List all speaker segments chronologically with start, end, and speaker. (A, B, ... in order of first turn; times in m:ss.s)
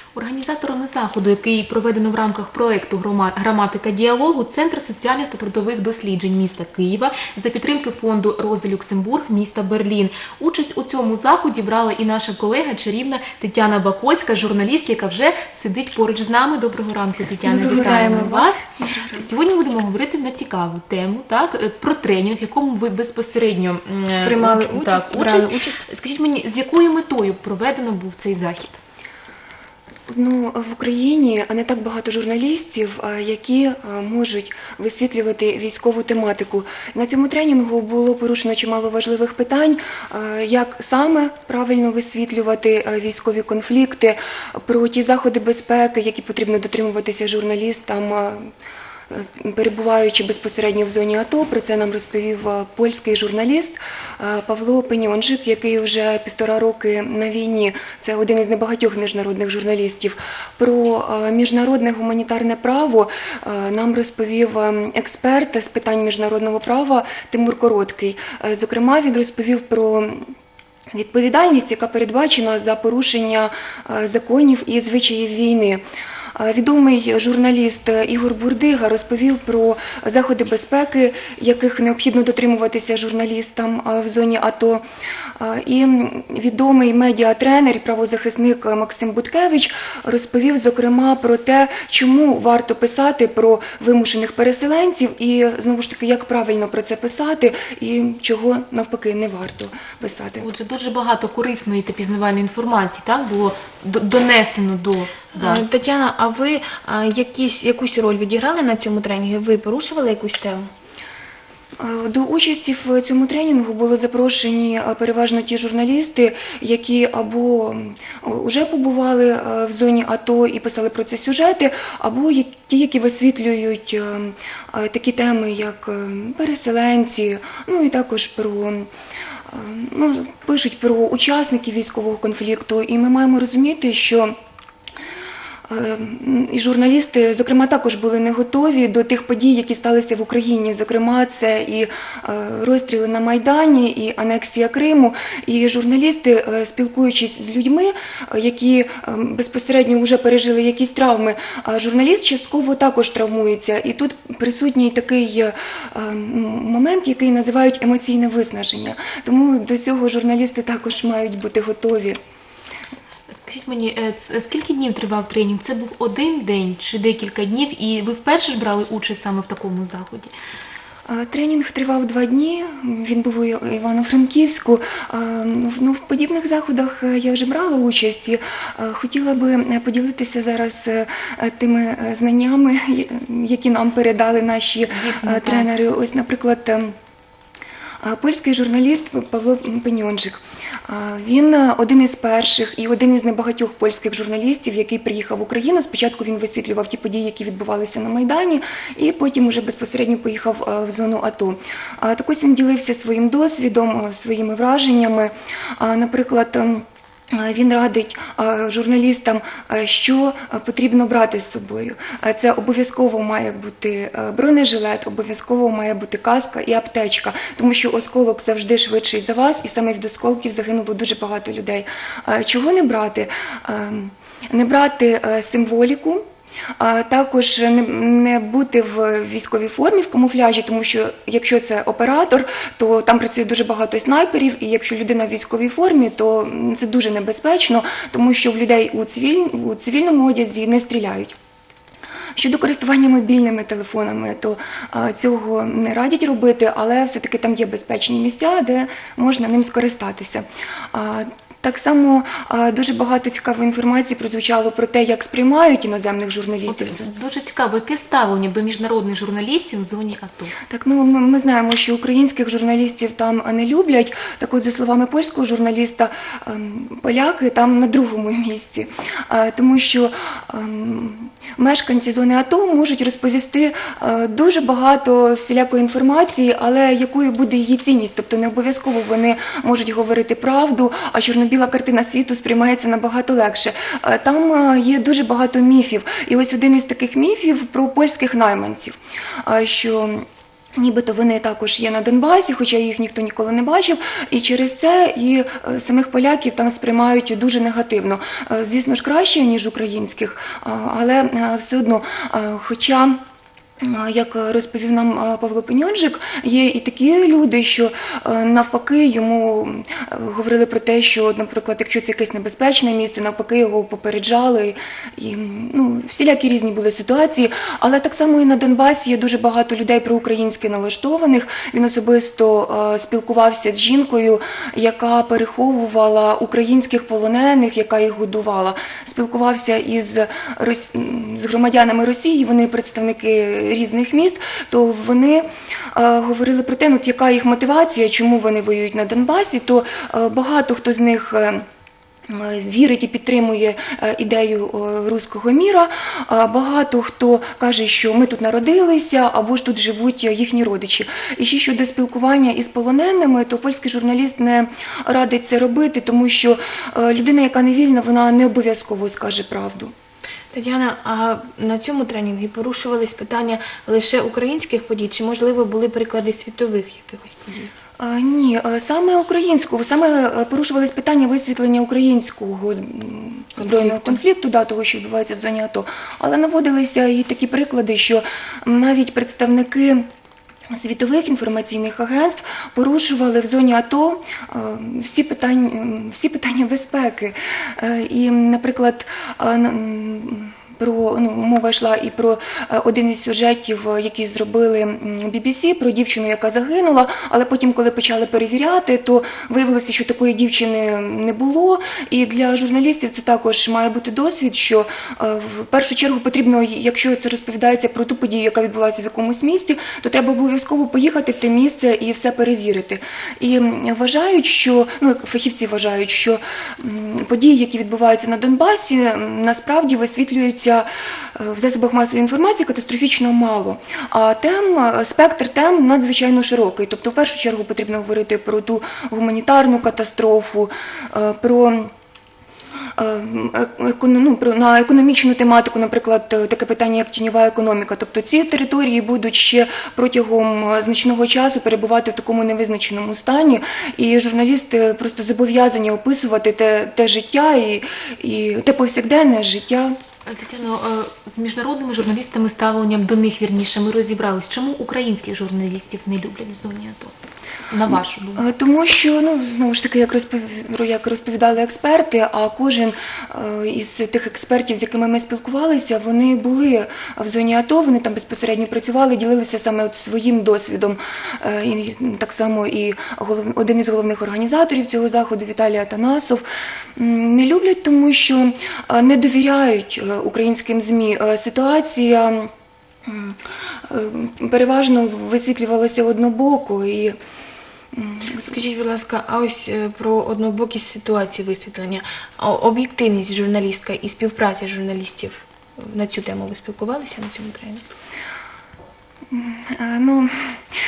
0:00.1-0:28.8 A
0:17.4-0:18.6 B
0:17.7-0:18.2 C
0:18.8-0:19.3 C
0:24.2-0:25.8 B
0:30.1-0:48.5 C
0:49.1-1:10.3 C
1:10.9-1:15.8 C
1:16.3-1:24.8 C
1:25.4-1:40.5 C
1:40.4-1:45.7 A
1:45.3-1:50.7 B
1:51.8-2:08.9 C
2:09.5-2:14.3 C
2:15.7-2:42.2 C
2:43.3-2:50.3 A
2:51.1-3:06.9 C
3:04.9-3:05.7 A
3:08.0-3:46.2 C
3:46.8-4:01.3 C
4:02.4-4:17.0 C
4:16.7-4:20.5 A
4:20.7-4:50.2 C
4:50.8-5:03.2 C
5:03.8-5:41.6 C
5:42.3-5:59.9 C
6:00.5-6:07.7 B
6:08.0-6:20.0 C
6:13.8-6:14.1 B
6:20.7-7:11.9 C
7:13.0-7:30.0 C
7:30.3-7:37.1 A
7:37.7-7:38.4 A
7:37.9-7:56.4 C
7:57.0-8:02.5 C
8:03.0-8:07.2 C
8:07.9-8:08.5 C
8:08.4-8:17.8 B
8:19.3-8:20.3 C